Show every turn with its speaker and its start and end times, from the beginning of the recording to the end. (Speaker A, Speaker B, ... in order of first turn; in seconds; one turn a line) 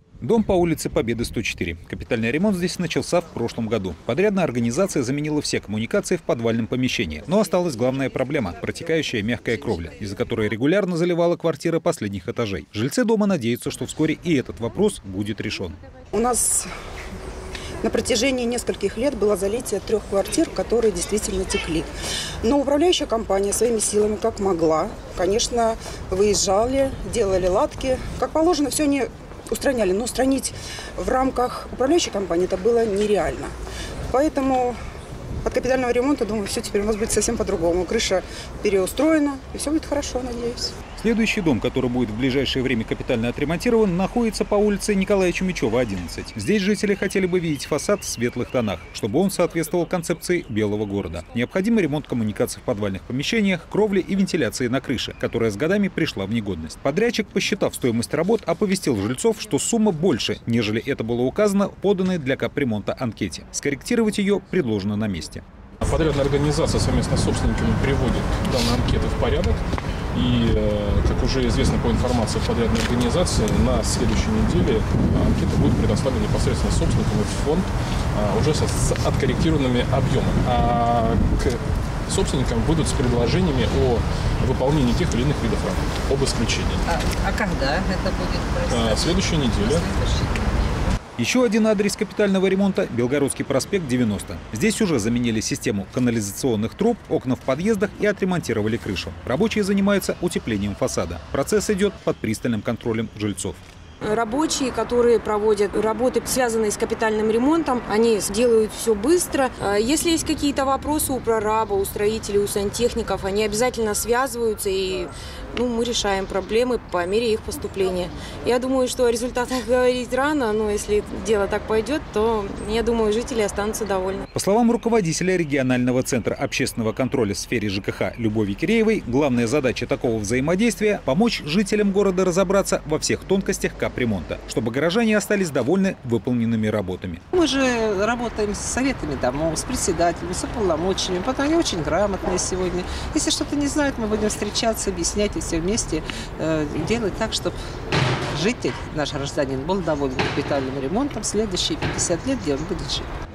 Speaker A: 0.2-15.8
Speaker B: 16.1-16.7
Speaker B: 17.8-21.9
Speaker B: 22.4-33.5
Speaker B: 34.1-34.8
Speaker B: 35.4-40.8
Speaker A: 41.0-65.4
Speaker C: 65.8-86.8
Speaker D: 86.9-90.9
Speaker C: 88.7-89.9
Speaker A: 91.2-103.6
Speaker E: 104.0-124.2
Speaker A: 124.3-137.2
Speaker D: 137.3-147.6
Speaker D: 148.3-153.1